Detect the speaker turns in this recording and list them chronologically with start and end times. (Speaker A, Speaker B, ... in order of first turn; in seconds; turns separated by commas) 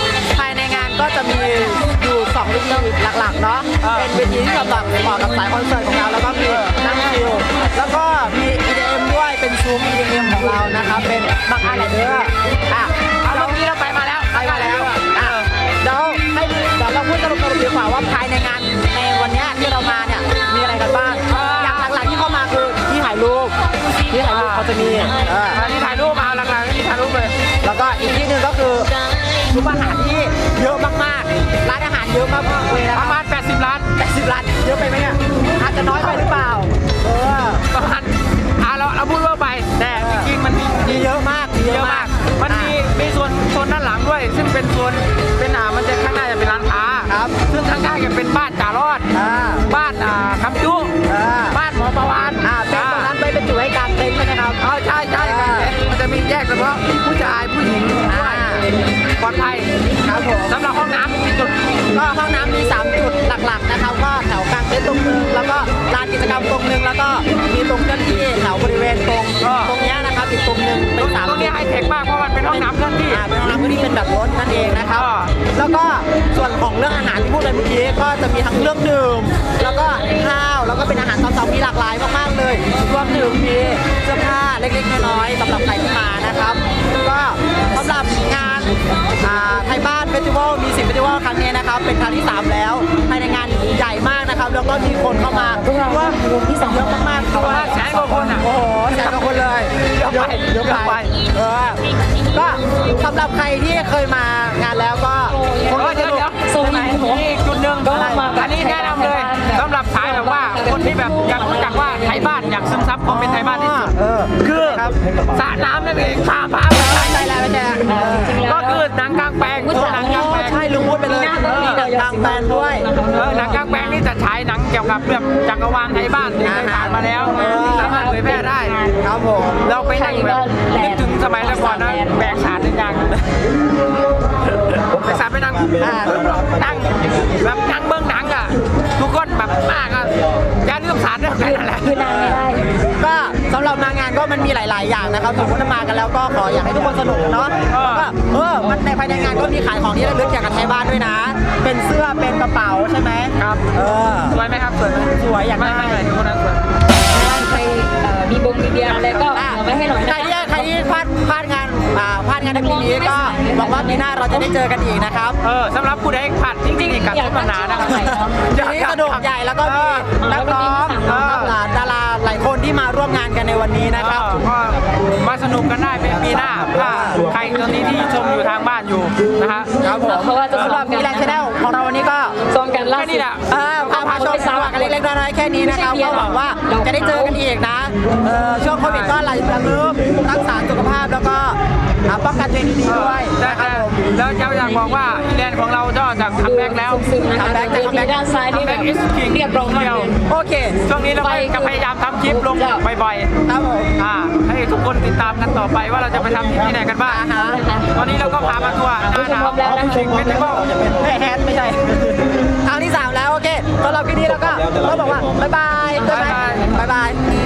Speaker A: 0.2-13.6, Speaker B: 3.8-4.1, Speaker B: 6.5-6.8, Speaker B: 13.2-15.5, Speaker A: 14.3-23.6, Speaker B: 21.3-21.9, Speaker A: 24.1-25.6, Speaker B: 24.2-27.4, Speaker A: 27.6-28.9, Speaker A: 29.5-33.2, Speaker B: 32.9-33.9, Speaker A: 34.0-37.7, Speaker B: 37.7-41.1, Speaker A: 39.9-42.8, Speaker B: 41.6-49.1, Speaker A: 47.1-47.4, Speaker A: 49.1-49.7, Speaker B: 49.7-50.9, Speaker A: 51.1-51.6, Speaker B: 51.5-53.1, Speaker A: 52.4-54.6, Speaker B: 54.6-58.7, Speaker A: 55.1-55.7, Speaker A: 58.1-58.7, Speaker B: 59.2-59.7, Speaker A: 59.8-60.5, Speaker B: 60.5-61.8, Speaker A: 61.9-71.6, Speaker B: 69.4-69.7, Speaker B: 71.0-73.2, Speaker A: 72.5-106.3, Speaker B: 74.9-75.3, Speaker C: 95.2-97.2, Speaker B: 97.3-99.2, Speaker B: 99.8-101.1, Speaker C: 105.3-112.8, Speaker B: 105.7-117.5, Speaker A: 107.9-108.3, Speaker A: 113.1-115.0, Speaker A: 116.7-118.4, Speaker C: 117.8-118.9, Speaker B: 118.4-120.6, Speaker C: 119.6-124.0, Speaker A: 119.7-123.6, Speaker B: 121.3-121.8, Speaker B: 123.1-128.8, Speaker A: 126.4-127.9, Speaker C: 127.0-129.0, Speaker A: 129.0-129.6, Speaker B: 129.6-133.1, Speaker C: 129.8-132.6, Speaker B: 134.7-140.1, Speaker A: 135.8-136.4, Speaker B: 140.6-142.1, Speaker C: 141.4-142.7, Speaker A: 142.0-142.4, Speaker A: 143.0-154.4, Speaker B: 147.7-148.1, Speaker B: 153.4-153.7, Speaker B: 154.3-156.7, Speaker A: 155.2-156.0, Speaker C: 157.1-160.7, Speaker A: 158.9-165.4, Speaker C: 162.5-164.5, Speaker B: 165.4-170.2, Speaker C: 166.7-168.4, Speaker A: 168.0-174.4, Speaker C: 170.2-171.5, Speaker B: 171.1-171.5, Speaker B: 173.9-179.7, Speaker A: 176.7-177.3, Speaker A: 179.8-182.4, Speaker C: 179.8-181.5, Speaker B: 180.5-180.8, Speaker C: 182.5-183.3, Speaker B: 182.9-184.6, Speaker A: 183.5-194.0, Speaker C: 183.9-185.0, Speaker C: 185.6-187.4, Speaker B: 188.8-189.2, Speaker B: 192.8-197.0, Speaker C: 196.4-200.1, Speaker A: 197.3-198.2, Speaker B: 198.5-200.1, Speaker A: 200.3-200.8, Speaker B: 200.9-203.3, Speaker C: 200.9-202.8, Speaker A: 203.5-203.9, Speaker B: 204.0-207.3, Speaker A: 207.0-207.6, Speaker C: 207.3-208.0, Speaker B: 207.9-210.7, Speaker C: 209.0-210.4, Speaker A: 210.7-217.2, Speaker C: 216.0-216.8, Speaker B: 216.0-216.7